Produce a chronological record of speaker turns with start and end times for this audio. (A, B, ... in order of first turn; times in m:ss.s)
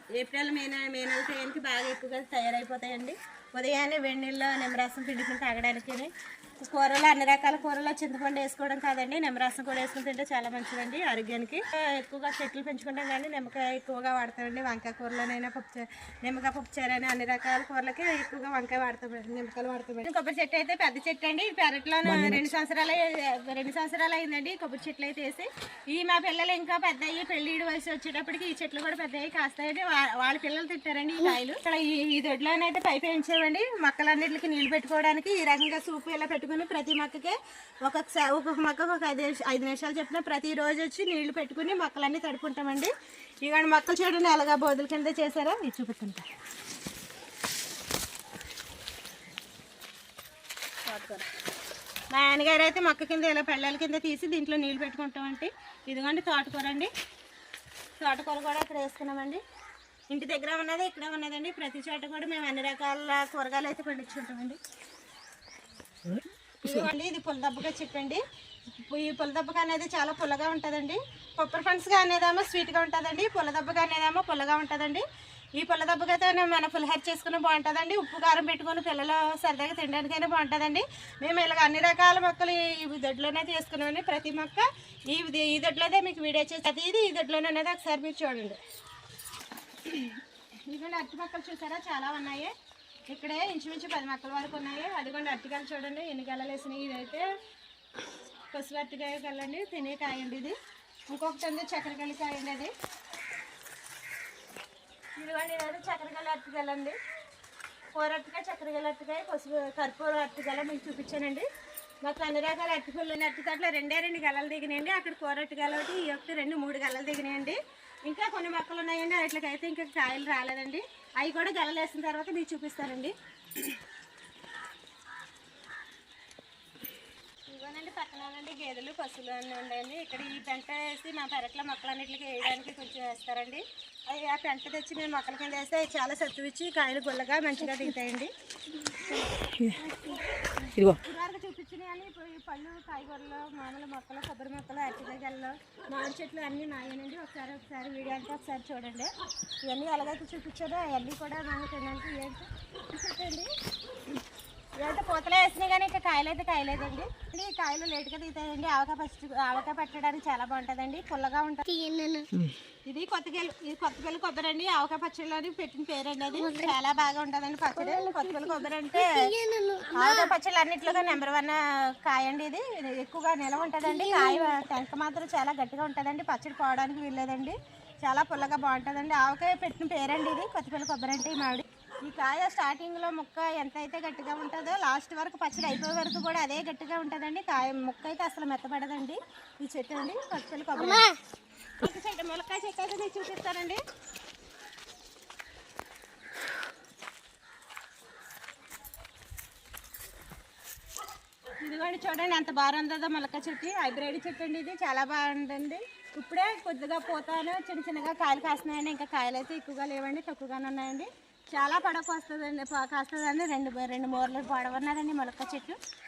0:00.2-0:42.9 A
0:43.4-0:46.3 A
0:50.9-0:51.3 A
0:52.1-0:56.9 A
0:58.0-0:59.4 A
1:00.1-1:04.6 A
1:06.6-1:08.2 A
1:08.8-1:15.0 A
1:15.6-1:28.6 A
1:29.8-1:32.5 A
1:33.1-1:37.2 A
1:38.5-1:40.6 A
1:41.1-1:42.7 A
1:45.2-1:47.0 A
1:48.0-1:51.5 A
1:52.0-2:03.8 A
2:07.5-2:18.3 A
2:19.8-2:20.2 B
2:21.0-2:29.1 A
2:29.7-2:33.5 A
2:34.8-2:41.6 A
2:41.7-2:42.3 B
2:42.9-2:49.3 A
2:46.4-2:46.8 B
2:47.8-2:50.3 B
2:49.9-3:11.1 A
2:53.9-2:54.5 B
3:10.8-3:11.2 B
3:11.8-3:13.8 A
3:21.6-3:35.8 A